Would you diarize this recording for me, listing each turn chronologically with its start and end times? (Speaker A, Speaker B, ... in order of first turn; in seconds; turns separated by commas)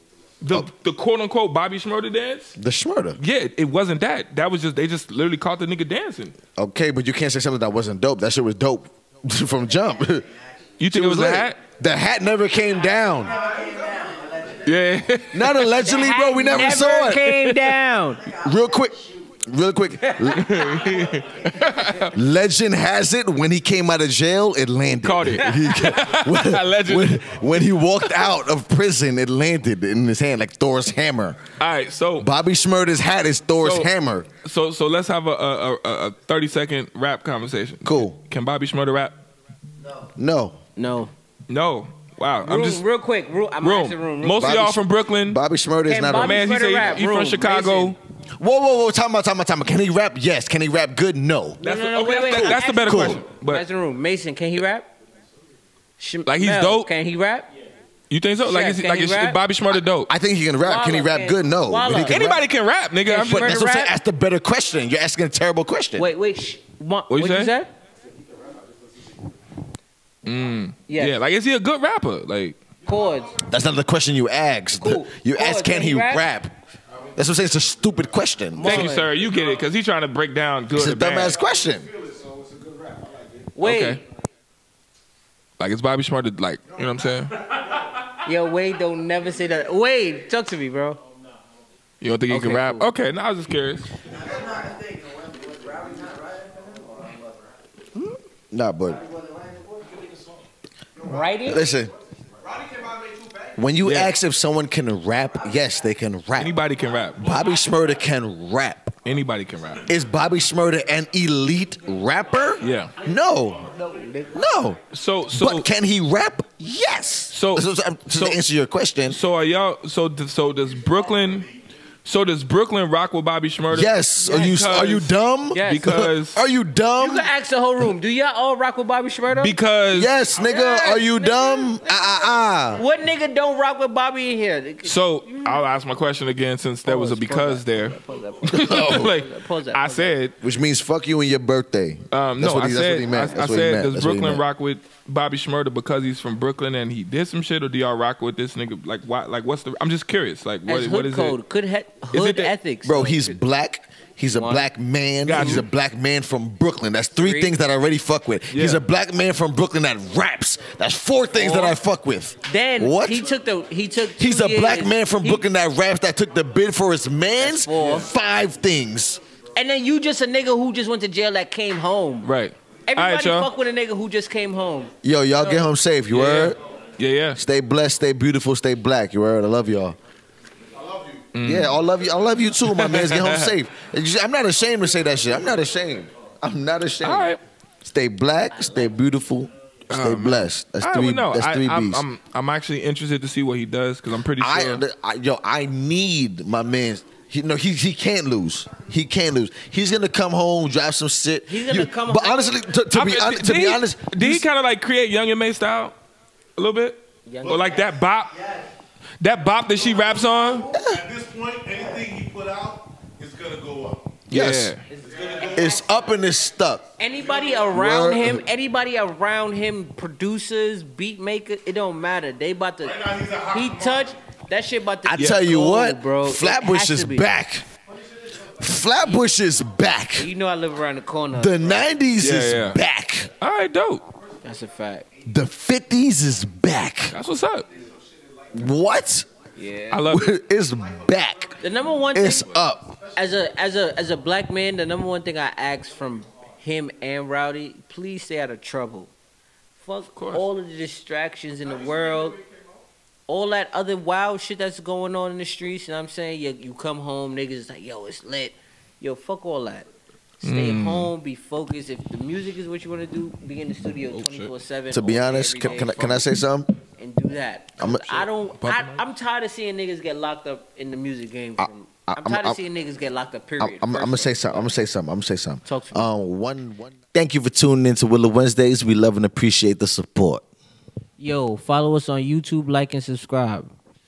Speaker A: 0.4-2.5, Speaker B: 2.6-3.2, Speaker A: 3.2-6.4, Speaker B: 6.6-10.3, Speaker A: 10.8-11.6, Speaker B: 10.9-13.4, Speaker A: 14.6-15.7, Speaker B: 15.3-17.3, Speaker C: 15.8-18.3, Speaker A: 16.5-17.8, Speaker B: 18.4-20.7, Speaker A: 20.1-22.1, Speaker B: 22.1-31.4, Speaker A: 25.0-28.3, Speaker C: 25.4-25.8, Speaker A: 31.6-32.3, Speaker B: 32.2-34.3, Speaker A: 33.6-33.9, Speaker A: 34.4-39.2, Speaker B: 37.8-38.2, Speaker B: 40.2-40.6, Speaker C: 40.8-41.1, Speaker A: 41.5-42.8, Speaker C: 42.4-44.6, Speaker A: 43.6-45.4, Speaker B: 44.4-46.4, Speaker C: 45.9-47.9, Speaker A: 46.1-48.0, Speaker B: 48.4-51.6, Speaker A: 51.6-53.6, Speaker C: 51.6-54.9, Speaker B: 52.3-53.2, Speaker C: 56.0-57.5, Speaker A: 56.2-56.9, Speaker A: 58.1-60.1, Speaker C: 58.4-59.4, Speaker B: 60.1-62.4, Speaker C: 60.6-62.3, Speaker A: 62.0-63.6, Speaker C: 63.0-64.0, Speaker B: 63.3-66.1, Speaker C: 66.0-67.7, Speaker A: 67.1-67.5, Speaker A: 70.2-72.6, Speaker C: 70.9-71.2, Speaker C: 72.9-73.4, Speaker B: 73.4-76.5, Speaker C: 74.8-76.2, Speaker B: 77.2-78.9, Speaker C: 78.6-79.1, Speaker A: 78.6-81.4, Speaker B: 80.8-81.9, Speaker C: 83.6-84.0, Speaker A: 83.6-84.0, Speaker A: 85.6-87.4, Speaker C: 88.2-91.0, Speaker A: 92.0-93.9, Speaker C: 92.3-92.9, Speaker D: 94.8-96.8, Speaker B: 98.5-99.1, Speaker C: 101.0-101.6, Speaker B: 101.4-101.9, Speaker B: 103.5-106.5, Speaker A: 103.8-104.1, Speaker A: 106.4-107.3, Speaker B: 107.2-108.9, Speaker A: 109.0-109.9, Speaker B: 109.9-113.7, Speaker A: 112.6-112.9, Speaker C: 113.7-114.3, Speaker B: 114.3-114.8, Speaker A: 114.9-115.7, Speaker B: 115.3-119.2, Speaker A: 117.3-118.4, Speaker A: 119.1-121.5, Speaker A: 122.0-126.4, Speaker B: 123.7-127.3, Speaker C: 125.5-126.0, Speaker C: 127.0-129.6, Speaker A: 129.3-130.1, Speaker B: 129.9-132.8, Speaker C: 130.4-135.6, Speaker A: 134.8-140.4, Speaker C: 136.8-140.2, Speaker B: 138.5-139.1, Speaker B: 140.4-144.4, Speaker A: 142.1-151.4, Speaker C: 150.7-153.4, Speaker A: 152.1-152.5, Speaker B: 152.8-163.3, Speaker C: 154.3-154.7, Speaker A: 155.2-155.7, Speaker C: 155.3-155.6, Speaker C: 157.2-157.6, Speaker A: 158.5-158.8, Speaker C: 161.3-161.8, Speaker C: 162.4-165.4, Speaker B: 164.2-169.2, Speaker C: 167.4-168.1, Speaker A: 167.7-168.1, Speaker C: 169.6-172.3, Speaker A: 172.2-173.5, Speaker C: 172.9-174.9, Speaker B: 175.0-176.6, Speaker A: 176.1-177.4, Speaker B: 177.4-179.9, Speaker A: 181.3-181.8, Speaker B: 181.4-187.3, Speaker A: 182.6-183.5, Speaker A: 187.0-187.4, Speaker B: 187.8-192.1, Speaker A: 189.9-194.8, Speaker B: 194.4-204.5, Speaker C: 201.5-202.6, Speaker A: 202.9-205.9, Speaker A: 206.6-208.4, Speaker C: 207.2-207.7, Speaker A: 209.2-210.7, Speaker B: 210.7-211.1, Speaker D: 210.9-214.0, Speaker A: 214.3-214.8, Speaker B: 214.3-214.8, Speaker C: 214.9-216.1, Speaker B: 215.5-216.9, Speaker C: 217.0-227.3, Speaker B: 217.7-218.4, Speaker B: 225.1-227.7, Speaker A: 225.2-225.4, Speaker B: 228.6-230.3, Speaker C: 230.2-231.9, Speaker B: 231.3-233.3, Speaker A: 232.2-232.8, Speaker A: 233.4-234.1, Speaker C: 234.4-235.1, Speaker B: 235.2-237.2, Speaker A: 237.1-237.7, Speaker B: 238.5-239.3, Speaker C: 239.6-240.1, Speaker A: 239.9-240.3, Speaker B: 240.1-241.6, Speaker C: 241.6-242.6, Speaker B: 242.1-243.0, Speaker C: 243.1-249.1, Speaker C: 249.8-252.4, Speaker A: 250.1-250.4, Speaker C: 253.3-259.9, Speaker A: 260.4-261.1, Speaker C: 260.4-266.2, Speaker A: 264.1-264.5, Speaker B: 264.9-266.7, Speaker C: 267.0-274.7, Speaker B: 267.8-268.3, Speaker A: 268.6-269.0, Speaker B: 271.6-272.6, Speaker B: 273.6-280.4, Speaker C: 275.6-276.1, Speaker C: 281.2-283.7